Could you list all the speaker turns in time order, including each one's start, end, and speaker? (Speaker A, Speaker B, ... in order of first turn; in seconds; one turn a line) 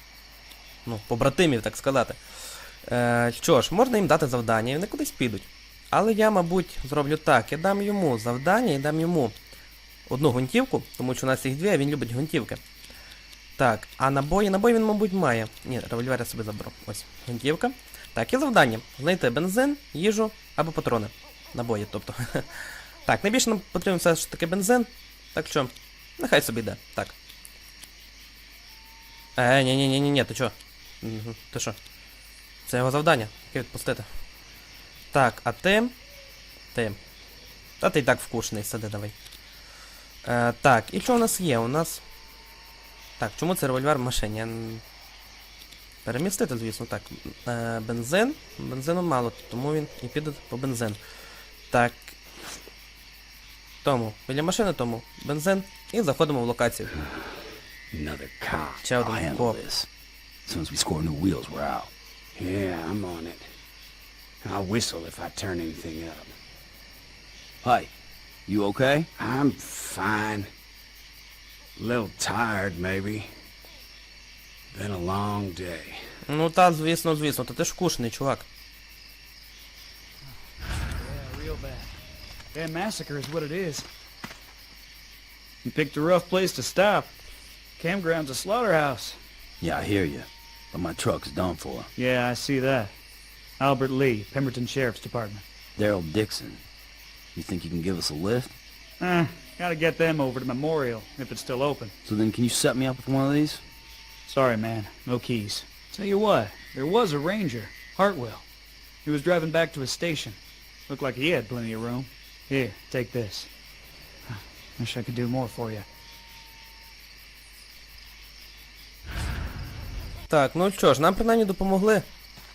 Speaker A: 0.9-2.2
Speaker A: 2.8-9.3
Speaker A: 10.1-12.6
Speaker A: 13.6-27.2
Speaker A: 29.4-31.8
Speaker A: 32.7-34.1
Speaker A: 35.1-35.9
Speaker A: 37.8-39.1
Speaker A: 40.2-42.0
Speaker A: 43.2-44.8
Speaker A: 46.0-51.0
Speaker A: 51.7-52.2
Speaker A: 53.8-57.0
Speaker B: 57.9-59.0
Speaker A: 58.8-59.6
Speaker C: 59.0-59.9
Speaker C: 60.5-61.9
Speaker B: 62.4-63.5
Speaker B: 64.4-66.3
Speaker C: 67.6-67.9
Speaker C: 68.5-69.1
Speaker B: 69.2-70.5
Speaker B: 71.8-73.3
Speaker B: 74.7-76.0
Speaker A: 76.3-78.5
Speaker D: 81.0-81.9
Speaker D: 82.5-83.9
Speaker D: 85.6-87.1
Speaker D: 87.8-89.2
Speaker C: 89.6-91.9
Speaker D: 92.0-92.9
Speaker D: 93.6-95.4
Speaker C: 95.8-96.6
Speaker C: 97.3-98.5
Speaker D: 99.0-101.9
Speaker C: 102.1-103.6
Speaker D: 104.2-108.5
Speaker D: 109.0-113.5
Speaker D: 114.3-115.9
Speaker A: 120.3-122.1